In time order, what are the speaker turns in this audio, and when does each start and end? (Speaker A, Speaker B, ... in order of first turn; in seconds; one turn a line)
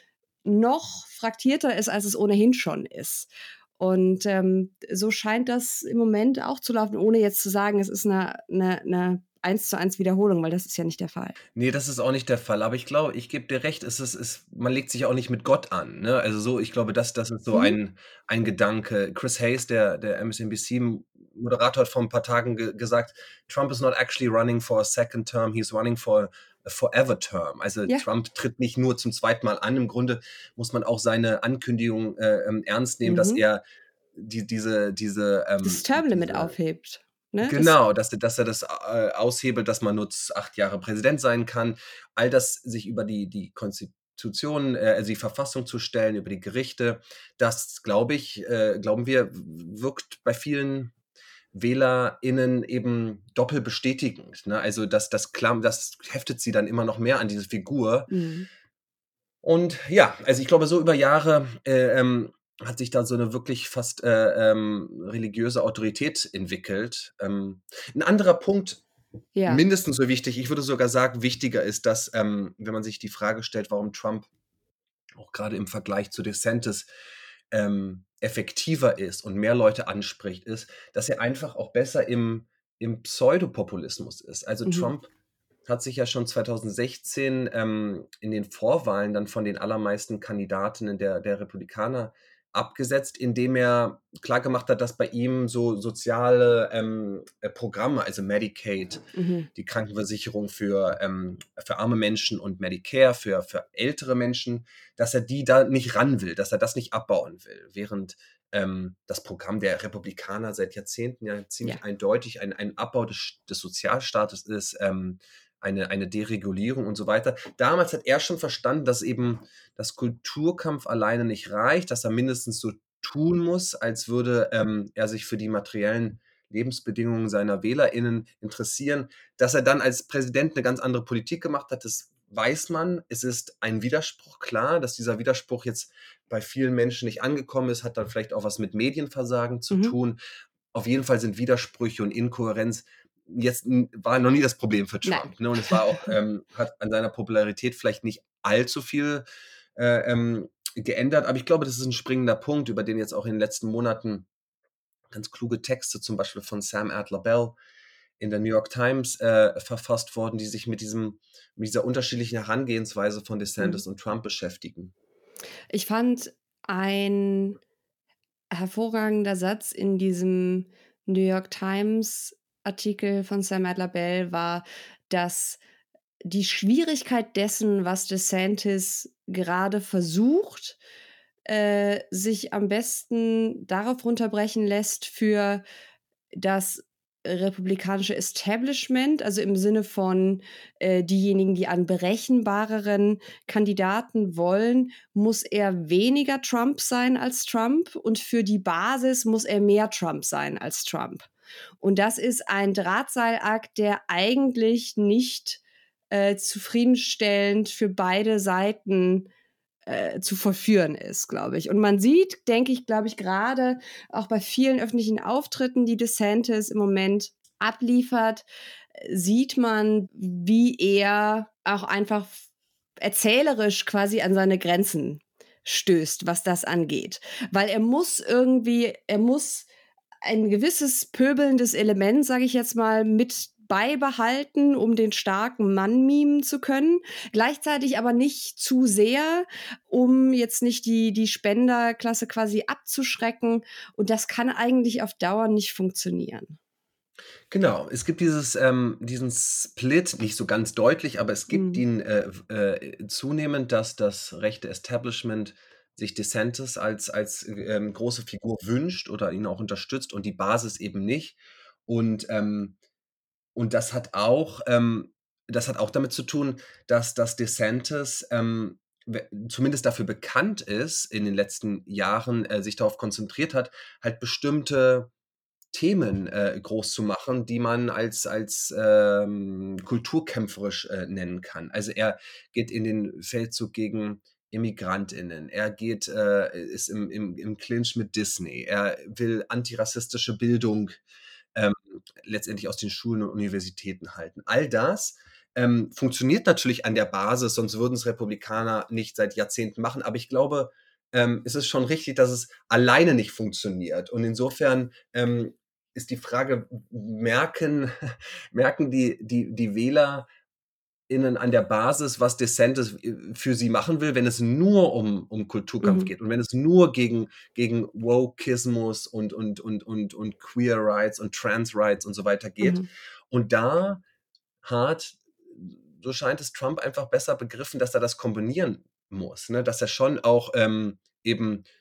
Speaker A: 0.4-11.3
Speaker B: 11.5-33.6
Speaker A: 17.5-17.8
Speaker A: 33.0-33.4
Speaker B: 34.1-36.5
Speaker A: 35.6-37.7
Speaker B: 37.4-50.9
Speaker B: 51.5-58.1
Speaker A: 58.1-58.5
Speaker B: 59.4-68.8
Speaker A: 69.3-69.6
Speaker B: 69.5-74.3
Speaker B: 75.2-76.9
Speaker B: 77.5-85.1
Speaker A: 84.7-84.9
Speaker B: 85.7-140.2
Speaker A: 99.1-99.5
Speaker A: 139.7-139.9
Speaker B: 140.7-149.2
Speaker A: 145.1-145.8
Speaker B: 149.8-154.3
Speaker B: 155.1-157.6
Speaker B: 158.2-164.9
Speaker A: 165.7-167.6
Speaker A: 168.5-175.6
Speaker A: 176.2-180.8
Speaker A: 181.4-185.6
Speaker A: 186.3-201.3
Speaker A: 201.8-205.6
Speaker A: 206.1-209.3
Speaker A: 209.8-218.4
Speaker A: 219.0-222.4
Speaker A: 223.0-229.7
Speaker A: 230.2-246.6
Speaker B: 247.5-262.8
Speaker A: 251.5-251.8
Speaker B: 263.5-275.1
Speaker B: 275.7-291.0
Speaker B: 291.5-310.3
Speaker B: 311.1-324.0
Speaker A: 315.8-316.1
Speaker B: 324.6-331.6